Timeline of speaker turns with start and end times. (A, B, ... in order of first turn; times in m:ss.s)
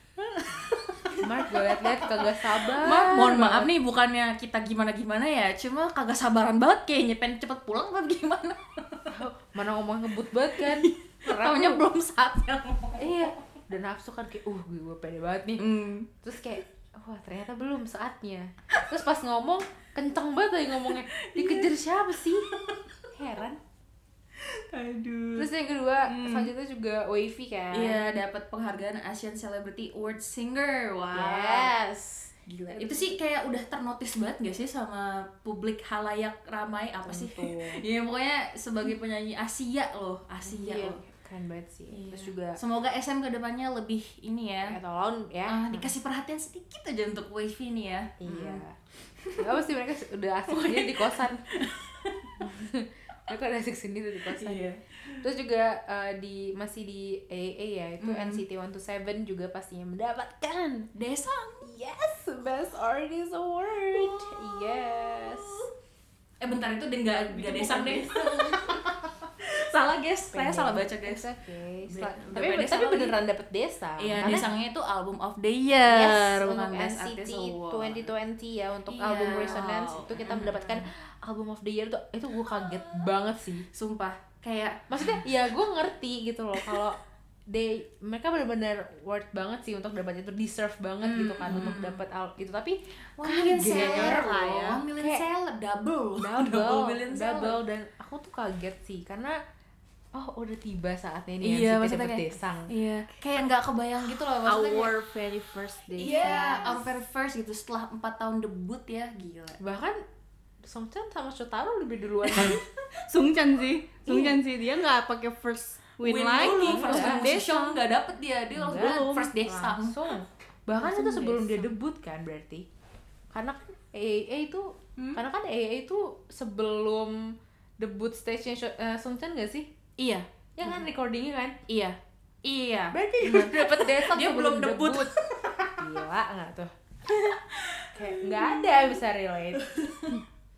0:00.3-0:09.1 A
0:01.2-0:03.7 B
0:09.1-0:11.8 B
0:10.6-0:13.2 A
0:13.0-0:15.6 B
0:15.6-0:16.1 A
0:16.2-0:22.5 B
0:21.1-0:21.7 A
0:22.5-0:22.8 A
0:23.1-0:23.6 B
0:24.4-0:25.5 A
0:25.4-0:28.1 B
0:26.0-0:26.5 A
0:27.7-0:31.7 A
0:31.1-0:33.2 B
0:32.7-0:41.0 A
0:37.0-0:37.8 B
0:40.4-0:42.6 B
0:41.9-0:44.8 A
0:44.7-0:45.9 B
0:45.5-0:48.6 A
0:48.2-0:48.8 B
0:49.4-0:51.4 B
0:50.5-0:52.3 A
0:52.4-0:54.6 B
0:54.3-0:55.2 A
0:55.2-1:00.9 B
0:58.0-0:58.4 A
1:00.9-1:01.7 A
1:01.6-1:05.6 B
1:03.9-1:05.6 A
1:06.4-1:11.2 A
1:07.3-1:08.8 B
1:10.3-1:14.5 B
1:11.8-1:13.1 A
1:14.0-1:18.1 A
1:15.8-1:23.6 B
1:18.9-1:20.8 A
1:22.6-1:23.1 A
1:23.7-1:25.2 A
1:24.9-1:35.2 B
1:31.0-1:32.0 A
1:33.2-1:37.6 A
1:33.8-1:34.2 C
1:36.2-1:39.4 B
1:40.1-1:42.7 B
1:41.4-1:44.9 A
1:44.4-1:46.8 C
1:46.0-1:49.6 A
1:46.0-1:46.8 B
1:49.6-1:50.0 B
1:50.6-1:52.6 B
1:53.1-1:57.6 C
1:56.0-2:00.0 A
1:56.4-1:57.7 B
1:58.5-2:02.7 B
1:58.7-1:59.3 C
2:00.8-2:01.7 A
2:03.3-2:09.7 B
2:05.0-2:05.2 A
2:10.0-2:10.8 A
2:10.6-2:11.6 B
2:11.7-2:15.7 A
2:12.9-2:15.1 B
2:15.8-2:16.7 B
2:17.1-2:18.9 A
2:17.9-2:19.7 B
2:19.6-2:20.2 A